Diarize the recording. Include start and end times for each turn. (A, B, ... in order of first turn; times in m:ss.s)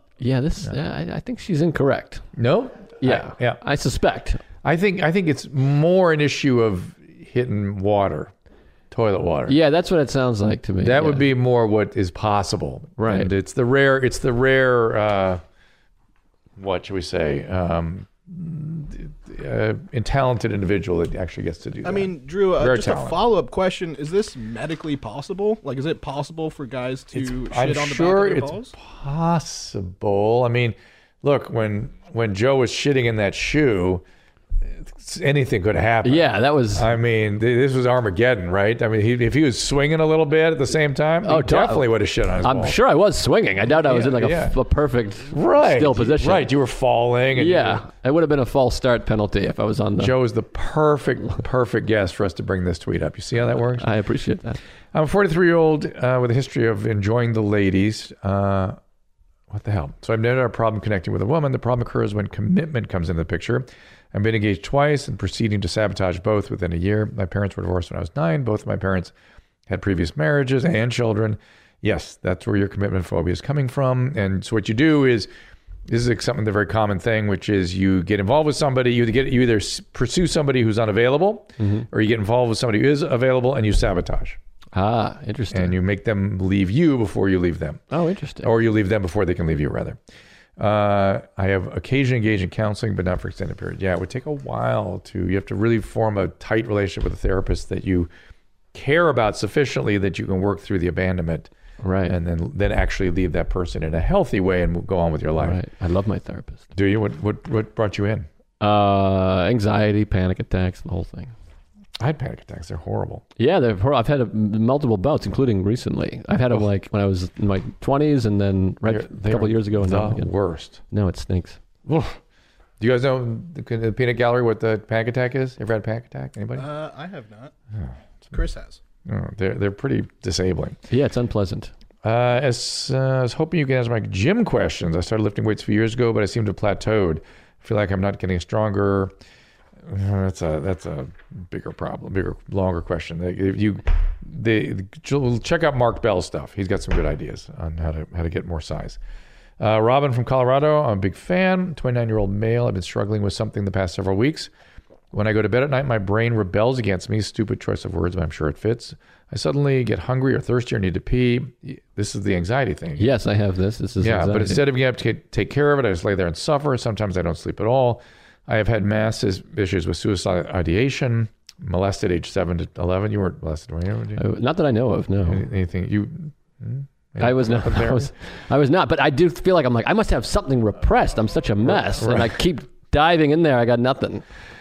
0:00.2-0:02.2 A
0:02.4-0:03.6 B
0:03.0-0:04.4 A
0:04.6-0:08.3 B
0:08.9-0:09.6 B
0:09.5-0:11.2 A
0:10.8-0:15.4 B
0:13.0-0:13.3 A
0:16.6-0:23.2 B
0:21.8-0:28.7 C
0:27.1-0:34.0 B
0:34.8-0:42.8 B
0:36.0-0:36.9 A
0:41.2-0:41.9 A
0:42.4-0:46.5 A
0:43.8-0:44.6 B
0:45.3-0:47.8 B
0:47.4-0:50.1 A
0:50.0-0:53.9 B
0:53.8-0:54.6 A
0:54.9-0:58.8 B
0:59.5-1:09.1 B
1:09.7-1:15.3 B
1:15.9-1:24.4 B
1:21.6-1:21.9 A
1:24.7-1:25.7 A
1:25.5-1:27.8 B
1:27.9-1:28.5 A
1:28.4-1:30.0 B
1:30.6-1:38.1 B
1:38.7-1:41.5 B
1:41.8-1:42.2 A
1:42.1-1:45.6 B
1:45.4-1:46.6 A
1:46.7-1:48.3 B
1:48.6-1:51.3 A
1:52.0-1:53.2 B
1:53.4-2:00.3 A
1:58.9-2:00.8 B
2:00.9-2:01.6 A
2:01.9-2:02.2 B
2:02.8-2:06.7 B
2:06.6-2:07.5 C
2:07.8-2:08.3 B
2:08.3-2:08.8 C
2:09.1-2:10.8 B
2:10.9-2:11.7 A
2:12.0-2:19.1 B
2:19.9-2:29.0 B
2:29.6-2:34.5 B
2:35.1-2:43.1 B
2:43.0-2:44.6 A
2:44.0-2:54.2 B
2:54.2-2:55.4 A
2:55.2-2:58.1 B
2:57.2-3:04.2 A
3:01.6-3:02.3 B